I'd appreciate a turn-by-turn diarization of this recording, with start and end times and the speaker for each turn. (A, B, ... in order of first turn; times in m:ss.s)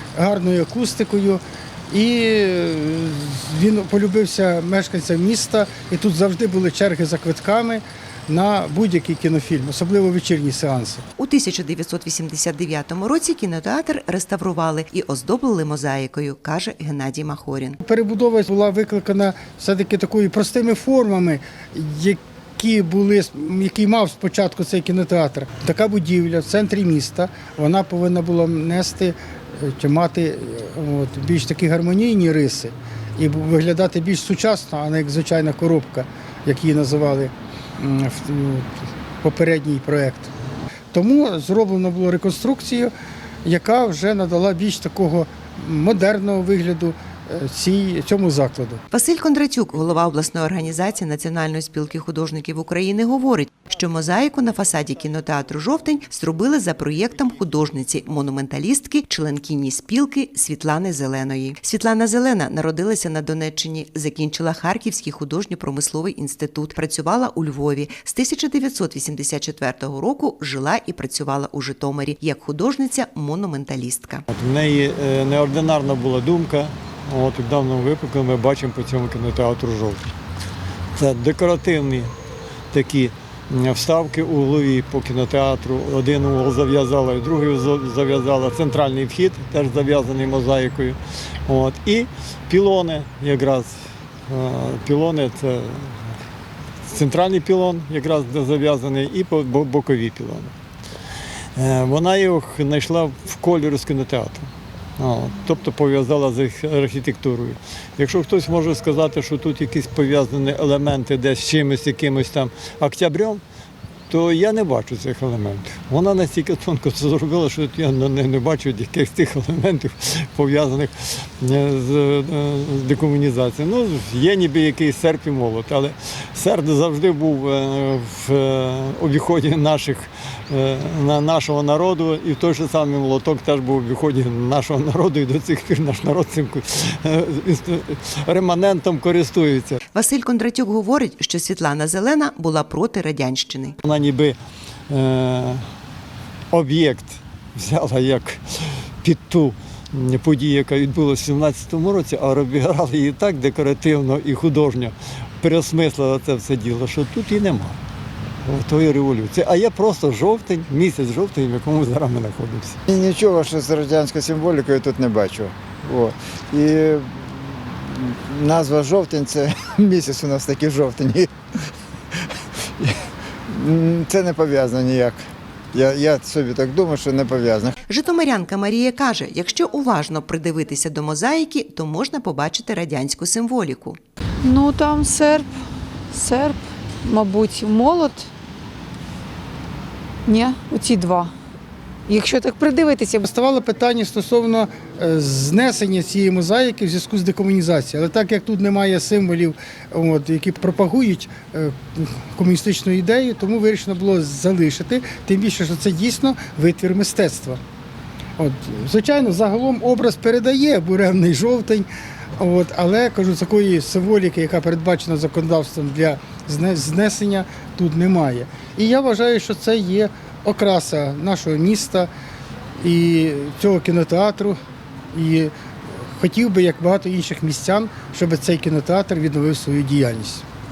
0:00.2-0:11.0 A
0:11.2-0:17.8 B
0:17.8-0:38.7 A
0:39.2-0:40.3 A
0:40.9-0:42.9 A
0:43.4-0:48.8 A
0:48.9-1:14.3 B
1:14.3-1:20.1 C
1:21.0-1:22.1 C
1:22.7-1:36.2 C
1:36.9-1:40.5 C
1:41.6-1:53.4 C
1:54.1-2:19.8 C
2:19.9-2:23.8 B
2:23.8-2:24.4 C
2:24.9-2:25.6 C
2:26.5-2:37.8 C
2:38.4-2:42.8 C
2:42.9-2:51.3 D
2:52.3-2:52.9 D
2:53.5-2:57.8 D
2:57.8-3:04.0 B
3:04.4-3:05.5 E
3:06.1-3:08.3 E
3:10.3-3:11.3 E
3:12.1-3:13.3 E
3:13.3-3:27.6 A
3:28.4-3:31.9 A
3:32.4-3:42.1 A
3:42.8-3:44.6 A
3:45.1-3:45.5 A
3:46.2-3:50.4 A